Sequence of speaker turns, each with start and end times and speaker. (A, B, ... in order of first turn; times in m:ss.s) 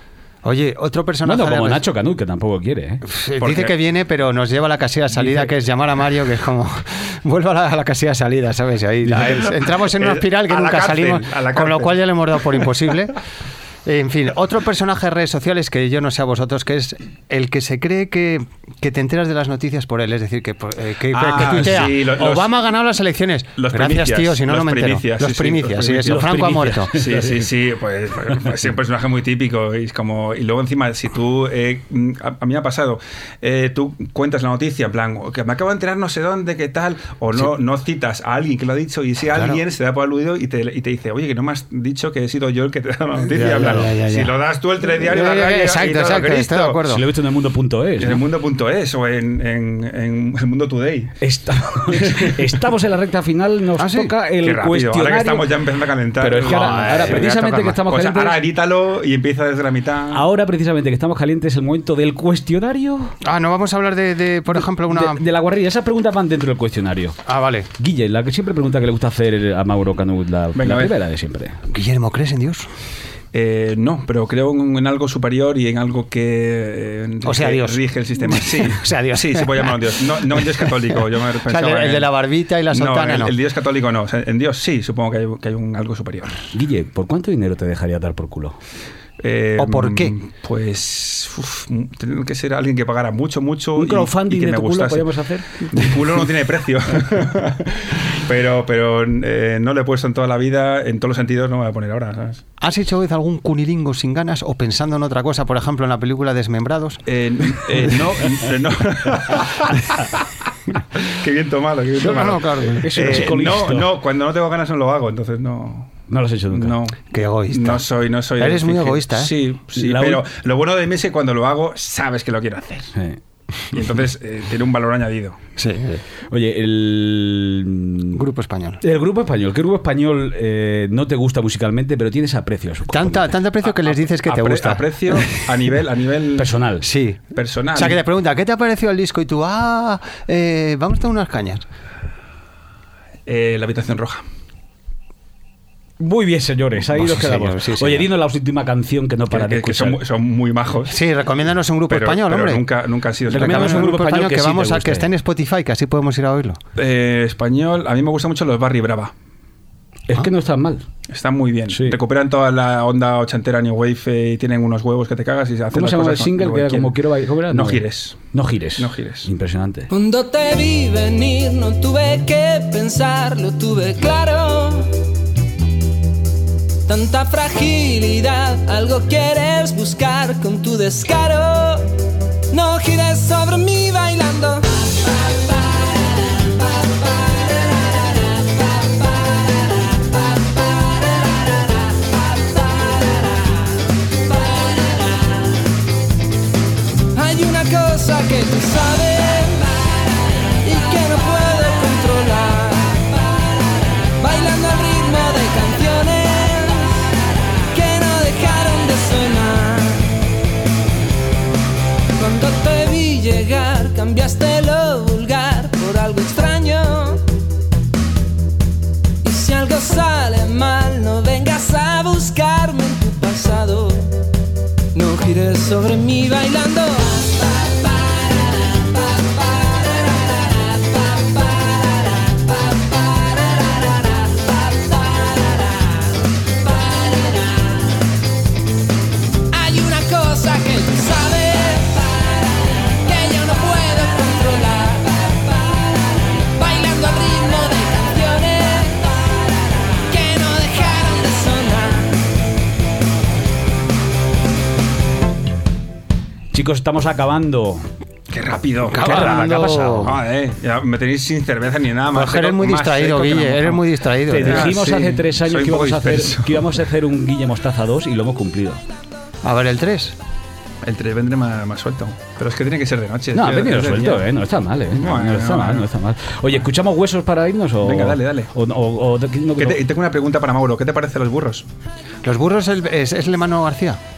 0:00.4-0:01.8 A
0:01.2-0:03.0 B
0:03.0-0:13.2 A
0:03.4-0:03.7 C
0:09.2-0:12.7 C
0:13.8-0:27.0 A
0:21.1-0:22.6 C
0:23.6-0:26.4 C
0:26.0-0:27.5 B
0:26.9-0:46.8 C
0:39.3-0:39.6 A
0:43.3-0:47.0 A
0:46.9-0:48.2 B
0:48.0-0:51.2 C
0:51.2-0:55.5 B
0:52.0-0:52.3 C
0:53.8-0:54.1 A
0:54.4-0:57.3 C
0:56.2-0:58.4 B
0:56.4-0:57.8 A
0:57.8-1:00.3 C
1:00.1-1:03.1 B
1:03.2-1:05.2 A
1:04.5-1:07.2 B
1:07.3-1:07.7 A
1:07.8-1:11.6 B
1:10.6-1:11.0 C
1:11.7-1:12.7 A
1:13.3-1:22.1 C
1:17.2-1:20.9 A
1:21.5-1:23.3 A
1:22.7-1:26.5 C
1:26.5-1:28.6 B
1:29.2-1:35.2 C
1:29.6-1:30.1 A
1:33.8-1:35.9 B
1:35.7-1:42.4 C
1:42.6-1:47.0 A
1:47.1-1:50.2 C
1:51.0-2:02.9 C
1:52.0-1:52.9 A
1:52.7-1:53.9 B
1:56.1-1:56.8 B
1:57.1-1:59.3 A
1:59.8-2:00.3 B
2:03.7-2:05.4 C
2:05.6-2:06.0 A
2:06.3-2:08.2 B
2:08.1-2:08.8 A
2:08.8-2:13.4 B
2:12.9-2:15.5 A
2:13.8-2:16.6 C
2:16.4-2:16.8 B
2:16.8-2:21.7 A
2:17.3-2:18.0 C
2:23.3-2:24.2 C
2:26.0-2:30.0 B
2:26.9-2:28.1 A
2:29.3-2:31.0 C
2:30.9-2:32.6 A
2:31.9-2:34.1 C
2:33.3-2:35.1 B
2:33.3-2:36.6 A
2:36.8-2:39.1 C
2:40.1-2:40.8 B
2:41.1-2:49.3 C
2:41.7-2:42.0 B
2:45.7-2:49.9 B
2:49.9-2:54.9 D
2:56.9-3:01.9 D
3:02.5-3:05.4 D
3:12.3-3:13.6 D
3:17.1-3:19.8 D
3:20.6-3:23.4 D
3:24.1-3:27.1 D
3:27.7-3:30.2 D
3:32.2-3:37.2 D
3:39.2-3:44.1 D
3:44.9-3:48.0 D
3:48.6-3:56.1 D
3:56.7-3:57.6 D
3:59.5-4:09.4 D
4:10.1-4:12.2 D
4:16.5-4:17.9 B
4:18.3-4:26.8 C
4:18.9-4:20.2 A
4:19.0-4:20.1 B
4:22.1-4:24.8 A
4:24.3-4:28.8 B
4:29.4-4:30.2 A
4:30.8-4:34.3 C
4:33.3-4:39.8 B
4:34.9-4:35.9 C
4:37.8-4:38.5 C
4:39.6-4:41.7 C
4:42.2-4:44.0 A